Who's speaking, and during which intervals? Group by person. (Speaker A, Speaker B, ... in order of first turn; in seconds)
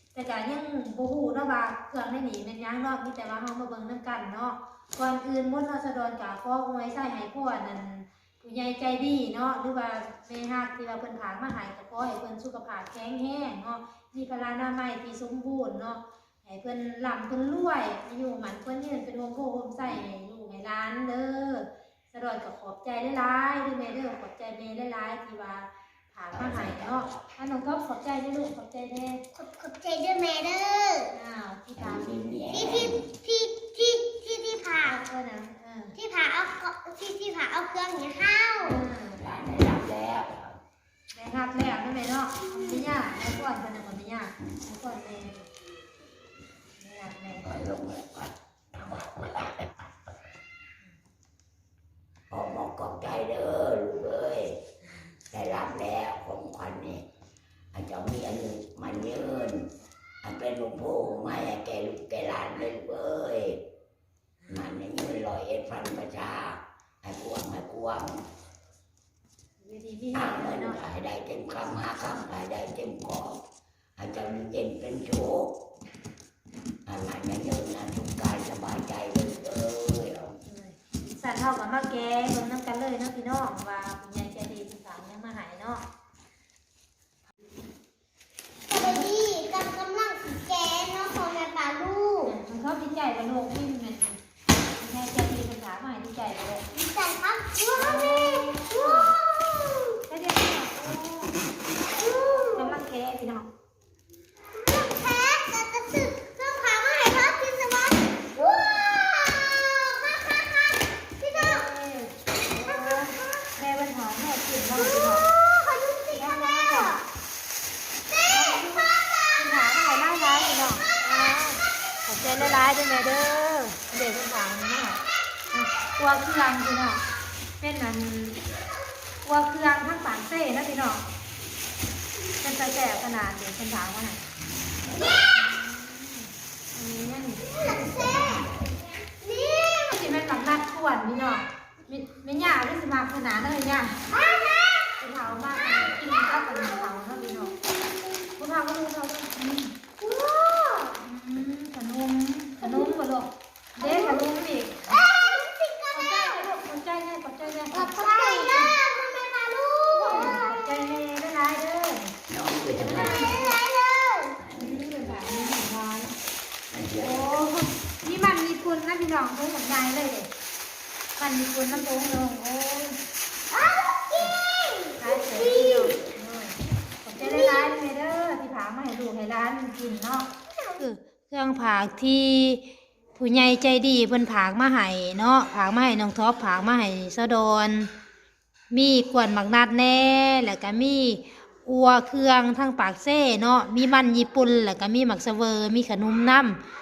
Speaker A: 0.1-29.2, 31.1-32.1, 34.8-35.9, 38.6-39.2, 41.1-45.5, 46.8-47.5, 69.6-70.8, 80.4-85.8, 88.7-89.0, 92.2-96.6, 97.8-99.1, 100.1-101.3, 102.5-103.5, 111.3-115.2, 116.1-117.0, 118.2-125.0, 125.5-127.0, 127.6-128.4, 129.2-131.0, 132.4-134.2, 135.3-137.4, 139.9-144.0, 145.0-147.5, 148.4-149.7, 151.0-155.0, 155.9-158.7, 160.0-162.1, 162.8-163.6, 164.6-166.1, 167.0-170.3, 171.2-173.0, 174.9-182.6, 183.2-187.9, 188.7-196.6
Speaker B: 26.3-27.2, 31.8-33.0, 39.2-40.6, 47.4-49.7, 52.3-54.6, 55.3-57.0, 57.7-59.7, 60.2-63.6, 64.5-68.2, 70.1-73.4, 74.0-75.5, 76.8-80.3, 134.5-135.2, 137.6-138.7, 162.3-163.3, 164.4-164.9, 166.7-167.3
Speaker C: 29.4-31.1, 32.5-35.0, 35.9-38.8, 88.7-92.3, 96.7-100.0, 102.0-102.7, 104.7-111.6, 112.6-113.2, 115.5-117.0, 139.2-140.0, 144.1-144.9, 146.2-146.6, 147.7-148.2, 150.0-151.0, 152.6-153.0, 153.8-154.3, 154.9-156.5, 157.7-160.6, 163.0-164.4, 173.5-176.0, 177.2-177.7, 180.5-180.8